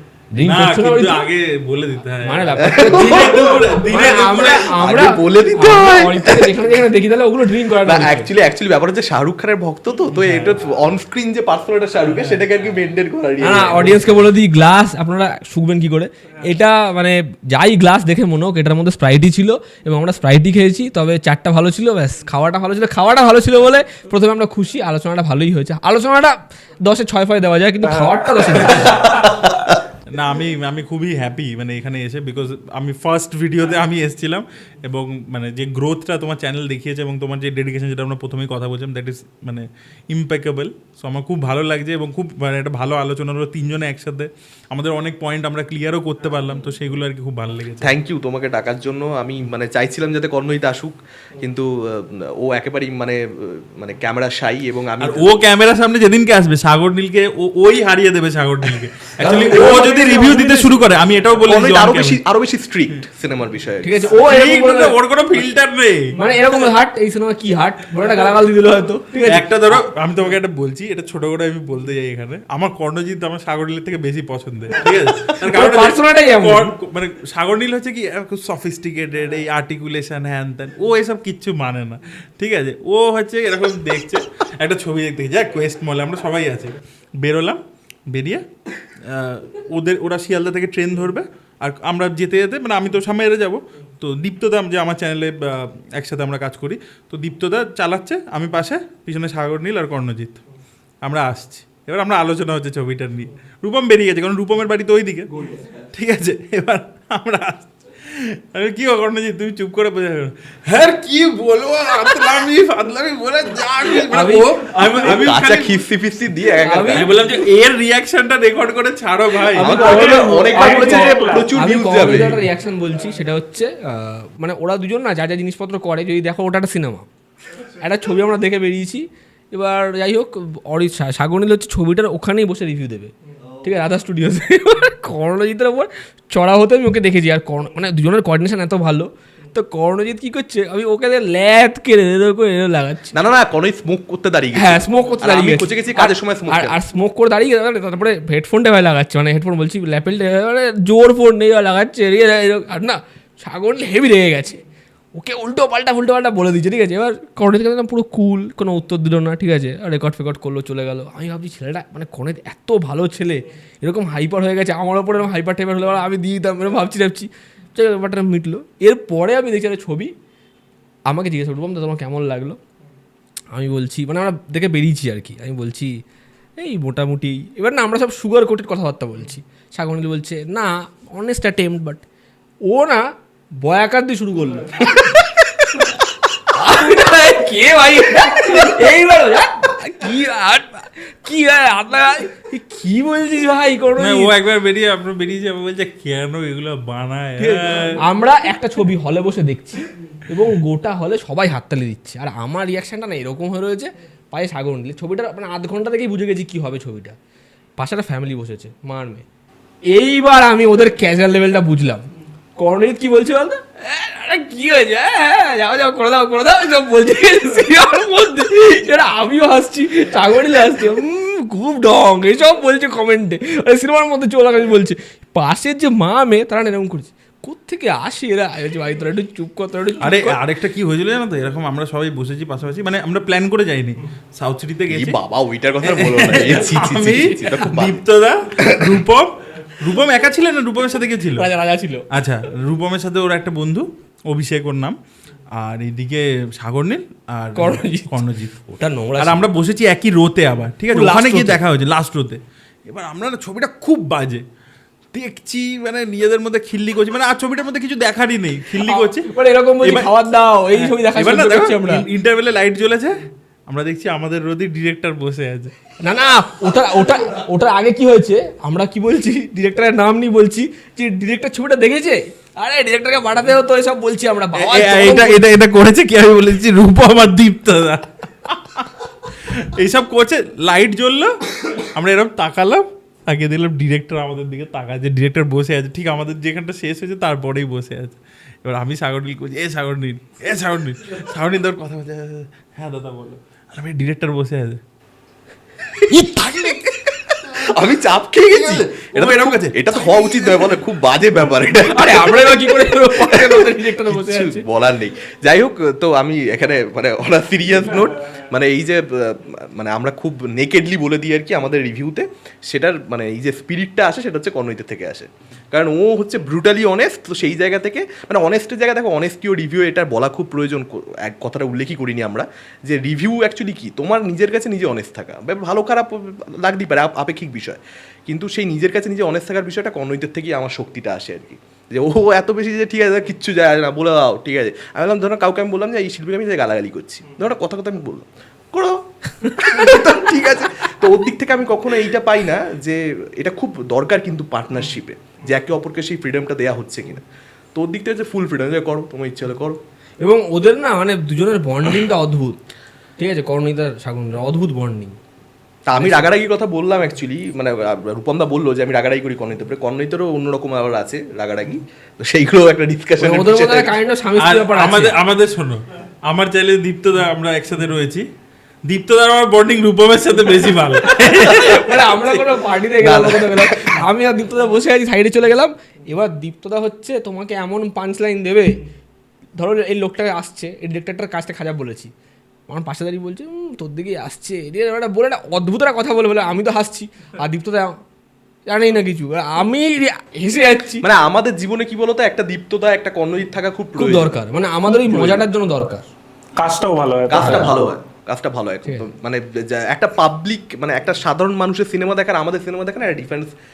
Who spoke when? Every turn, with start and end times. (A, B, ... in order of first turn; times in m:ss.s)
0:00.3-0:01.2 A
0:00.4-0:04.7 B
0:02.2-0:08.3 A
0:02.6-0:03.7 C
0:04.7-0:06.7 C
0:07.8-0:14.2 C
0:10.2-0:10.5 B
0:13.4-0:29.2 A
0:27.8-0:28.9 D
0:29.0-0:29.8 C
0:30.1-0:47.9 B
0:47.8-0:55.3 C
0:55.0-1:02.2 B
0:59.2-1:00.8 A
1:01.4-1:04.2 C
1:03.8-1:05.0 A
1:04.2-1:06.1 B
1:06.2-1:09.8 A
1:09.3-1:27.6 B
1:15.2-1:16.7 A
1:28.1-1:28.4 B
1:29.0-1:40.4 B
1:41.0-1:45.3 B
1:45.9-1:55.8 B
1:53.8-1:55.1 A
1:55.0-1:57.1 C
1:56.6-1:57.1 A
1:56.9-1:59.7 B
1:59.6-2:07.1 A
1:59.6-2:02.4 C
1:59.6-2:01.5 D
2:07.8-2:23.1 A
2:23.1-2:26.8 C
2:24.5-2:34.6 A
2:35.2-2:50.1 A
2:51.1-2:52.6 A
2:53.5-2:55.9 A
2:56.6-3:02.0 A
3:02.7-3:03.0 A
3:03.6-3:14.3 A
3:14.0-3:18.0 B
3:17.4-3:27.2 A
3:27.8-3:29.2 A
3:29.9-3:50.4 A
3:50.0-3:55.2 B
3:54.9-3:58.0 C
3:55.8-4:01.5 B
3:58.6-3:59.0 C
4:01.4-4:02.1 A
4:02.1-4:04.9 B
4:05.5-4:08.6 B
4:07.6-4:09.4 A
4:09.2-4:14.4 B
4:10.9-4:11.6 A
4:15.1-4:19.3 B
4:18.8-4:22.0 A
4:19.8-4:20.1 B
4:20.7-4:25.7 B
4:26.0-4:35.4 A
4:34.6-4:54.8 B
4:55.9-4:57.6 B
4:57.5-5:47.2 C
4:58.5-5:00.4 B
5:01.9-5:04.6 A
5:39.4-5:39.9 A
5:47.7-5:49.8 C
5:50.2-5:52.6 A
5:53.2-5:55.2 A
5:55.9-6:03.9 C
5:55.9-5:56.3 A
6:03.2-6:05.2 A
6:04.4-6:08.2 B
6:08.8-6:11.9 B
6:11.0-6:18.8 A
6:12.0-6:14.0 C
6:19.6-6:22.1 A
6:22.7-6:28.0 A
6:28.7-6:31.0 A
6:31.0-6:34.3 C
6:34.0-6:36.1 A
6:34.9-6:35.4 C
6:36.6-6:37.9 D
6:37.3-6:43.5 C
6:37.4-6:37.7 A